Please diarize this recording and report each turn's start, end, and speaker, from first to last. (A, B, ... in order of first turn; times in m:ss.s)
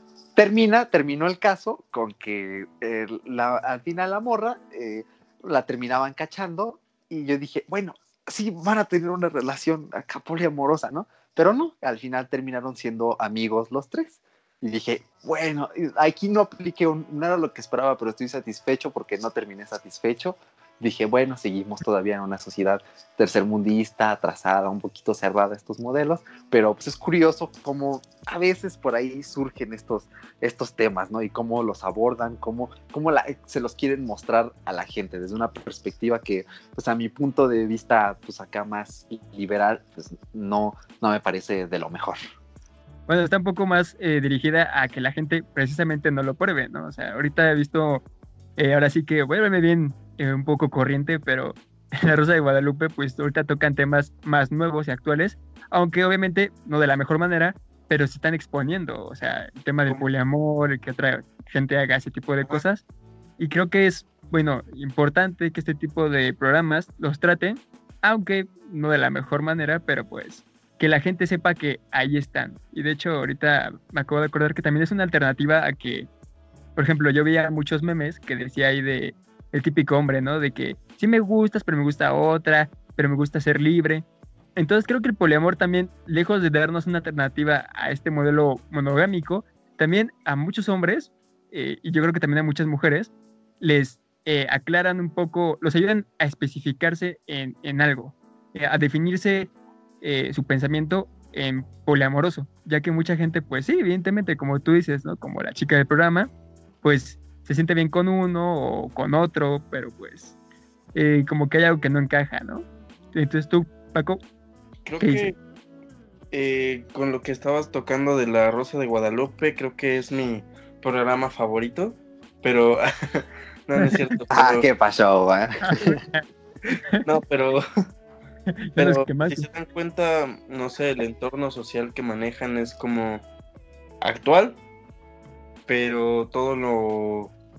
0:00.4-0:42.2 A
0:43.1-0:48.0 B
0:48.6-1:02.8 B
1:03.4-1:16.1 B
1:16.8-1:39.5 B
1:40.0-1:46.3 B
1:46.8-1:50.3 B
1:50.9-1:54.2 B
1:54.8-1:55.4 C
1:55.0-1:55.3 B
1:56.3-2:04.7 C
2:04.3-2:06.0 A
2:05.7-2:07.0 B
2:07.0-2:07.6 C
2:08.5-2:09.4 B
2:08.8-2:13.2 C
2:14.0-2:14.6 C
2:15.7-2:17.3 C